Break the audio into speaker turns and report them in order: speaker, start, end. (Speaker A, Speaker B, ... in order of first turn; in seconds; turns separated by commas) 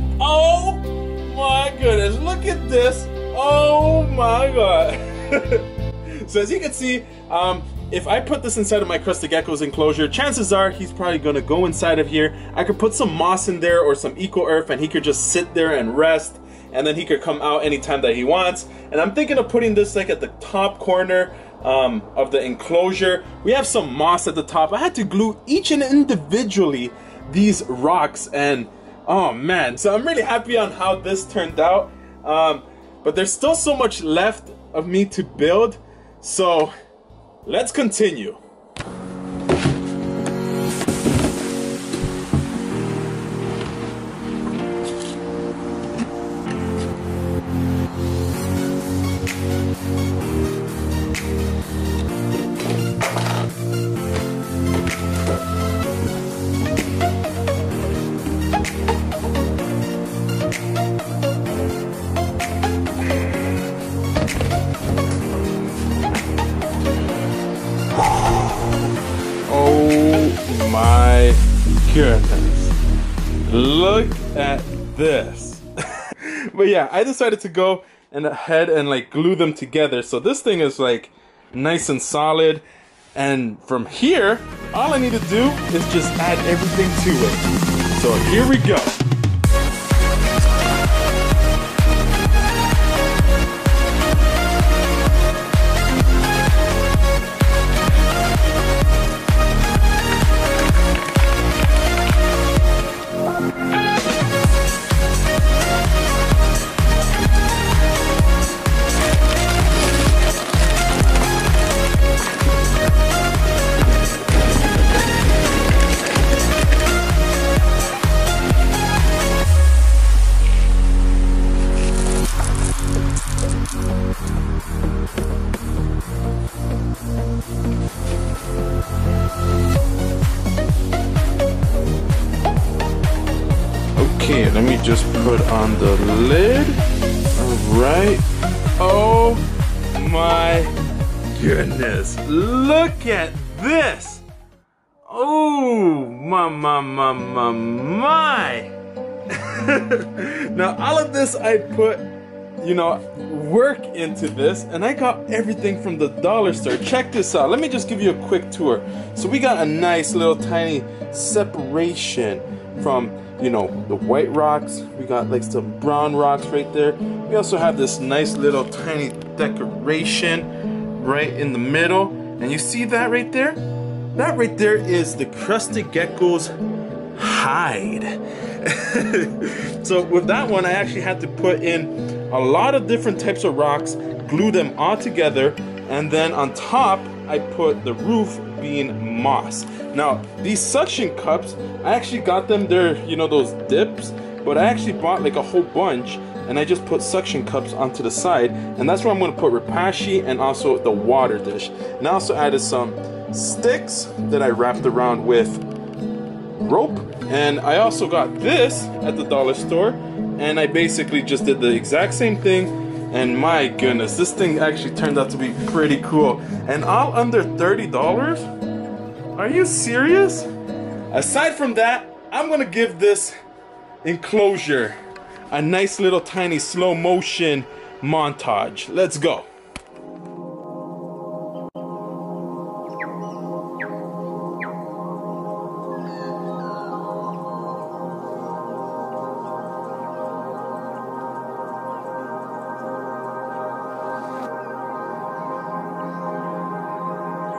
Speaker A: 0.2-36.7, Speaker A: 37.4-38.4, Speaker A: 67.9-68.9, Speaker A: 69.5-72.8, Speaker A: 73.5-89.0, Speaker A: 133.9-136.8, Speaker A: 137.3-138.2, Speaker A: 138.8-140.7, Speaker A: 141.2-144.2, Speaker A: 145.1-148.7, Speaker A: 149.3-152.1, Speaker A: 152.6-173.6, Speaker A: 174.1-176.5, Speaker A: 177.1-205.6, Speaker A: 206.6-218.5, Speaker A: 219.3-220.5, Speaker A: 221.1-223.4, Speaker A: 224.0-225.0, Speaker A: 225.5-229.5